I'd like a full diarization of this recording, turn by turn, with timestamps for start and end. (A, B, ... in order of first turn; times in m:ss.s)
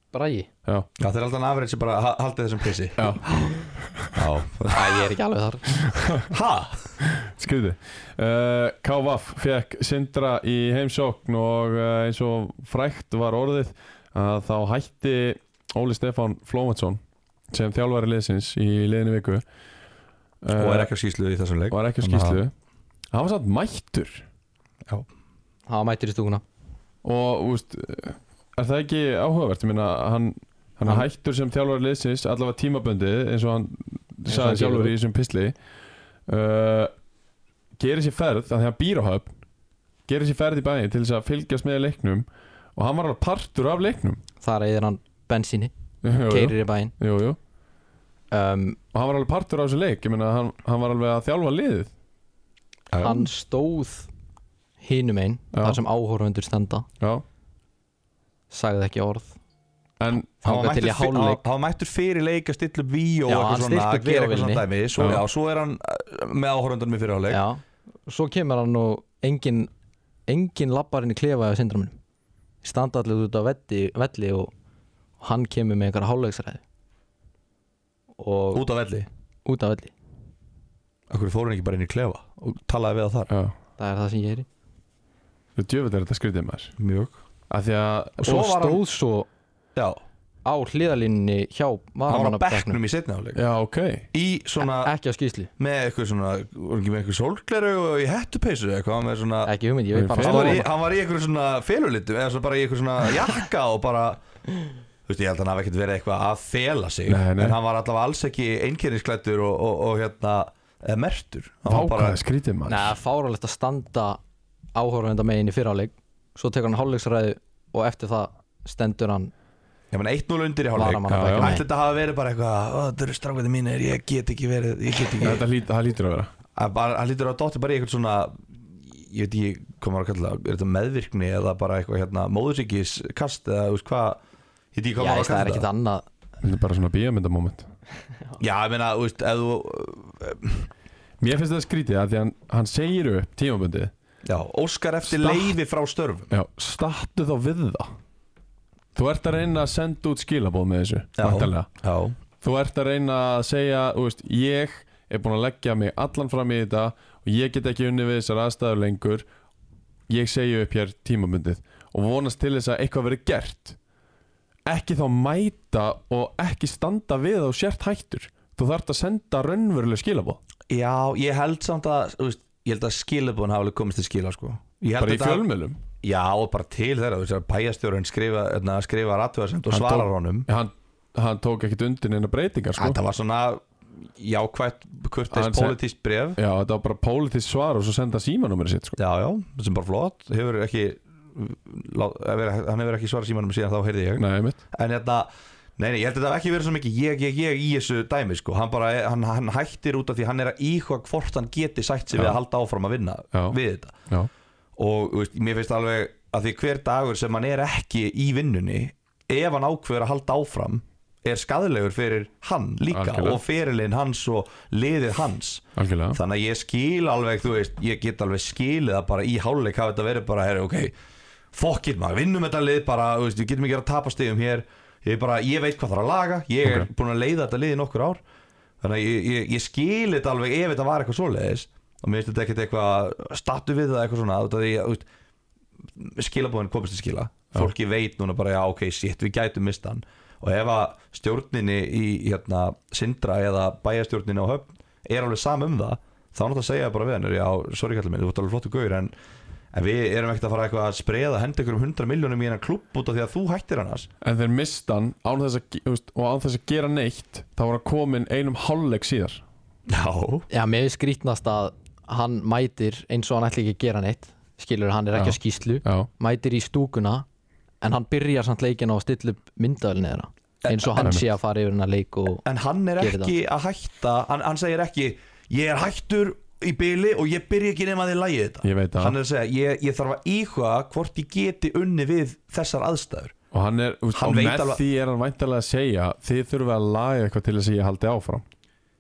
0:00.1-0:00.5 A
0:01.0-0:03.2 B
0:03.0-0:04.2 C
0:04.1-0:05.1 B
0:04.7-0:05.7 A
0:05.7-0:06.3 C
0:06.3-0:06.9 B
0:07.0-0:17.0 C
0:17.5-0:19.4 C
0:20.4-0:20.9 C
0:20.6-0:22.4 B
0:21.7-0:22.5 C
0:23.1-0:24.2 C
0:25.7-0:26.4 A
0:27.0-0:35.6 C
0:34.3-0:34.9 A
0:36.3-0:36.9 C
0:37.8-0:39.3 C
0:40.1-0:44.2 C
0:44.4-0:45.7 A
0:46.0-0:47.4 C
0:46.2-0:46.9 A
0:48.3-0:48.8 A
0:48.9-0:51.9 C
0:52.9-0:53.3 B
0:53.0-0:54.1 A
0:54.8-0:56.9 A
0:55.5-0:55.8 C
0:58.5-0:59.4 A
1:00.0-1:00.3 C
1:00.4-1:01.4 A
1:00.4-1:07.4 B
1:03.3-1:04.6 A
1:05.0-1:05.2 C
1:07.3-1:09.7 A
1:10.3-1:12.0 A
1:12.6-1:14.5 A
1:15.2-1:16.6 A
1:18.2-1:18.6 A
1:18.5-1:19.1 B
1:19.5-1:19.9 A
1:21.1-1:23.3 B
1:23.3-1:23.6 C
1:23.8-1:24.5 A
1:25.6-1:26.8 C
1:26.8-1:27.2 B
1:27.5-1:28.5 C
1:28.2-1:28.8 B
1:28.2-1:29.3 A
1:30.4-1:32.8 A
1:32.1-1:33.4 B
1:33.4-1:34.1 C
1:34.1-1:34.9 B
1:34.6-1:35.5 A
1:35.6-1:39.5 B
1:39.4-1:40.7 A
1:40.0-1:40.6 C
1:40.2-1:44.2 B
1:45.1-1:52.2 B
1:47.1-1:47.6 C
1:51.7-1:53.0 C
1:52.7-1:54.2 A
1:54.8-1:59.3 A
1:59.9-2:05.4 B
2:00.7-2:01.6 A
2:01.1-2:01.5 C
2:05.2-2:06.3 C
2:06.6-2:14.2 B
2:14.7-2:15.7 B
2:15.0-2:16.0 A
2:16.4-2:17.7 C
2:18.4-2:20.7 B
2:21.2-2:23.9 C
2:24.2-2:26.3 B
2:25.1-2:25.5 C
2:26.3-2:27.9 C
2:29.0-2:31.7 C
2:31.2-2:32.2 B
2:32.4-2:39.3 C
2:40.1-2:43.8 C
2:44.7-2:50.4 C
2:50.7-2:55.4 B
2:55.0-2:55.8 C
2:56.0-3:00.5 B
2:59.7-3:03.0 C
3:02.8-3:03.6 B
3:04.2-3:06.4 B
3:05.3-3:05.8 C
3:06.4-3:09.0 C
3:09.0-3:24.0 B
3:14.2-3:14.6 C
3:24.8-3:40.9 B
3:32.9-3:33.4 C
3:35.8-3:36.2 C
3:41.5-3:48.2 B
3:48.8-3:55.0 B
3:56.0-4:09.1 B
4:09.7-4:14.1 B
4:14.2-4:19.4 C
4:19.9-4:20.5 B
4:20.5-4:27.3 A
4:25.2-4:26.1 C
4:27.8-4:32.4 A
4:30.6-4:31.2 B
4:32.4-4:43.3 B
4:33.0-4:33.3 A
4:38.6-4:39.2 C
4:43.5-4:48.4 C
4:44.1-4:44.8 B